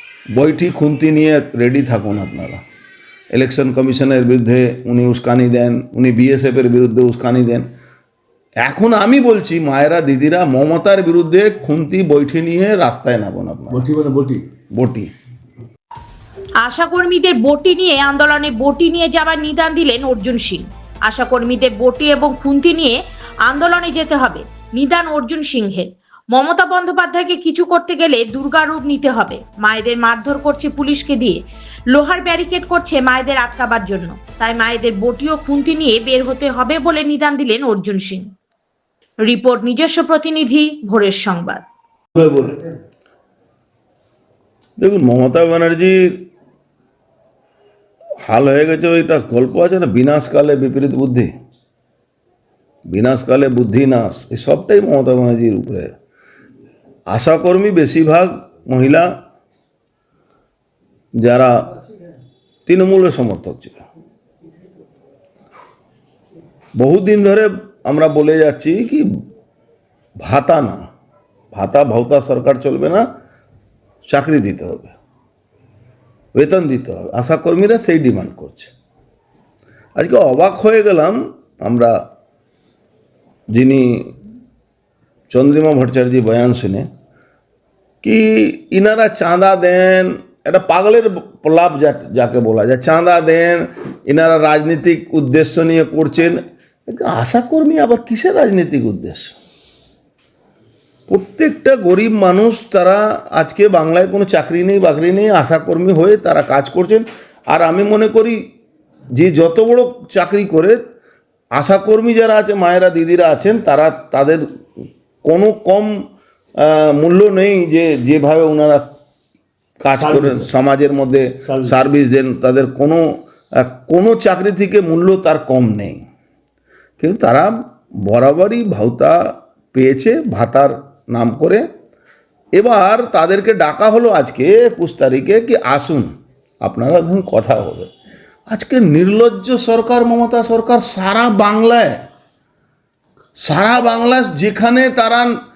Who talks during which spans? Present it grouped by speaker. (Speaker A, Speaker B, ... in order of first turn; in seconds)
Speaker A: 0.3-2.6, 3.3-7.7, 8.6-13.8, 14.7-15.1, 44.8-46.2, 48.2-51.3, 52.9-55.9, 57.1-59.1, 61.2-61.7, 62.7-63.8, 66.8-69.0, 70.2-70.8, 71.5-73.0, 74.1-75.0, 76.3-78.7, 80.0-82.0, 83.5-84.1, 85.3-86.9, 88.0-99.3, 101.1-108.4, 109.1-110.8, 111.5-114.5, 115.2-116.0, 116.6-118.8, 119.8-126.0, 127.0-131.7, 132.5-137.9, 138.5-142.1, 143.4-145.4
Speaker B: 13.7-14.4, 42.2-42.6, 120.0-120.5, 121.4-121.8
Speaker C: 16.6-38.3, 39.2-41.6